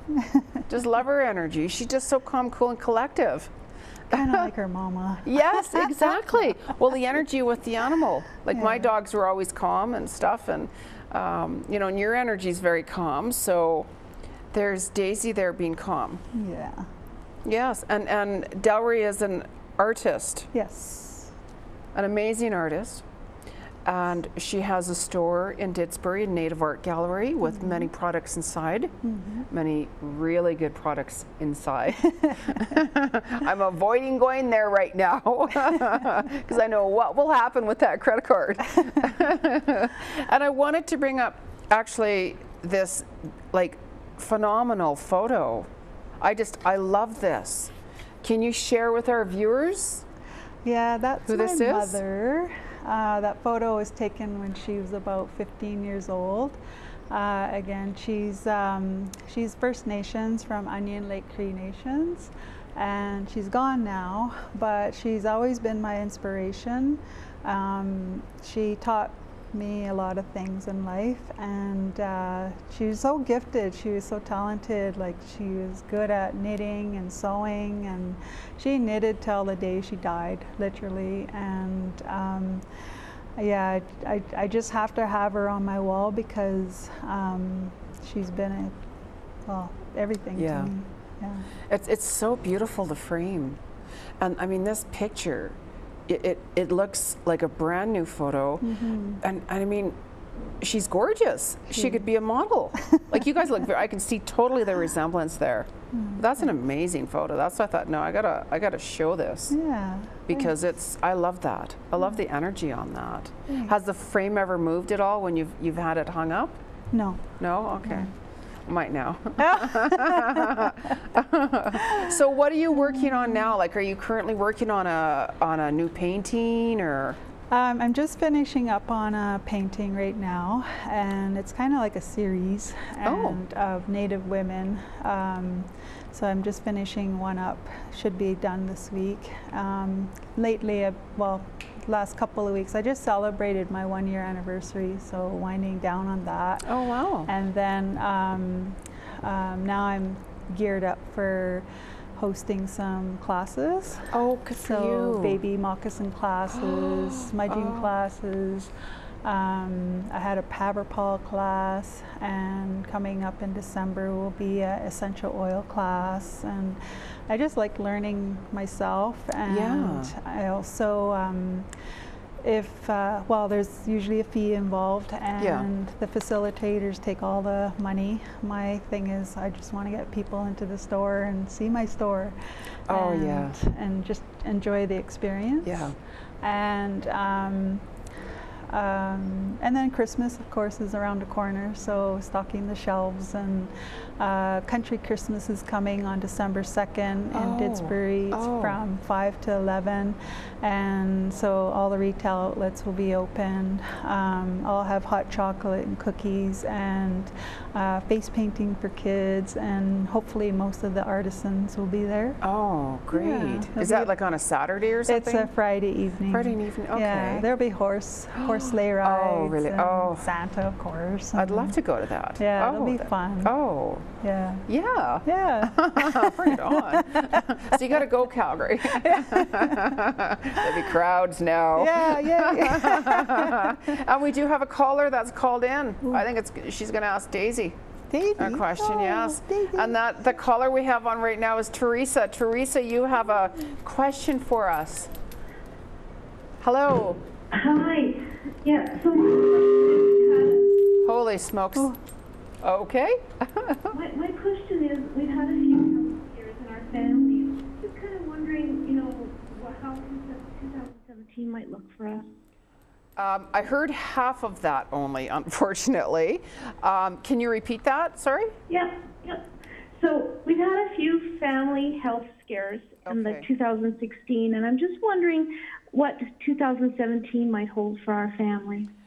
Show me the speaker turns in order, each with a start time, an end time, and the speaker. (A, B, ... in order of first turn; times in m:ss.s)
0:00.2-0:00.4 A
0:00.7-0:03.5 B
0:04.1-0:06.5 A
0:04.1-0:04.5 B
0:05.2-0:13.9 B
0:08.5-0:08.9 A
0:14.5-0:16.2 B
0:16.3-0:16.8 A
0:17.4-0:20.5 B
0:20.5-0:21.3 A
0:21.9-0:23.0 B
0:23.8-0:28.9 B
0:27.5-0:27.8 A
0:29.0-0:29.4 A
0:29.5-0:45.7 B
0:46.2-0:47.7 B
0:48.2-0:50.0 B
0:50.6-0:56.6 A
0:51.3-0:52.0 B
0:57.1-1:22.6 A
1:23.4-1:28.8 A
1:29.4-1:31.5 A
1:30.3-1:30.7 B
1:31.7-1:33.6 B
1:34.2-1:35.6 B
1:36.1-1:38.7 B
1:38.6-1:39.2 A
1:39.2-1:40.0 B
1:40.6-1:49.6 B
1:41.7-1:42.0 A
1:45.9-1:46.4 A
1:49.5-1:50.5 A
1:50.3-1:56.6 B
1:56.9-1:57.2 A
1:57.4-1:58.1 B
1:57.8-1:58.1 A
1:58.6-2:07.2 B
1:59.4-2:00.7 A
2:01.8-2:02.1 A
2:07.5-2:26.7 A
2:13.0-2:13.4 B
2:26.6-2:27.3 B
2:27.2-2:38.7 A
2:34.1-2:35.4 B
2:36.5-2:37.9 B
2:39.2-2:51.7 A
2:49.4-2:50.1 B
2:52.4-3:02.4 A
2:55.4-2:55.7 B
3:02.9-3:03.6 B
3:02.9-3:07.9 A
3:05.6-3:06.0 B
3:08.7-3:32.4 A
3:17.3-3:18.8 B
3:32.4-3:35.5 B
3:33.1-3:34.1 A
3:35.0-3:41.8 A
3:36.3-3:37.4 B
3:38.3-3:40.3 B
3:41.3-3:44.1 B
3:42.4-3:43.5 A
3:44.2-3:44.6 A
3:44.7-3:57.8 B
3:45.2-3:47.5 A
3:49.0-3:50.0 A
3:50.6-3:50.9 A
3:51.8-3:54.0 A
3:58.1-3:59.9 A
3:58.4-4:05.1 B
4:06.6-4:07.2 B
4:07.5-4:10.7 C
4:11.0-4:11.9 B
4:12.6-4:14.0 B
4:13.9-4:22.3 C
4:23.2-4:28.5 B
4:28.7-4:29.4 C
4:30.0-4:38.9 C
4:33.0-4:33.5 B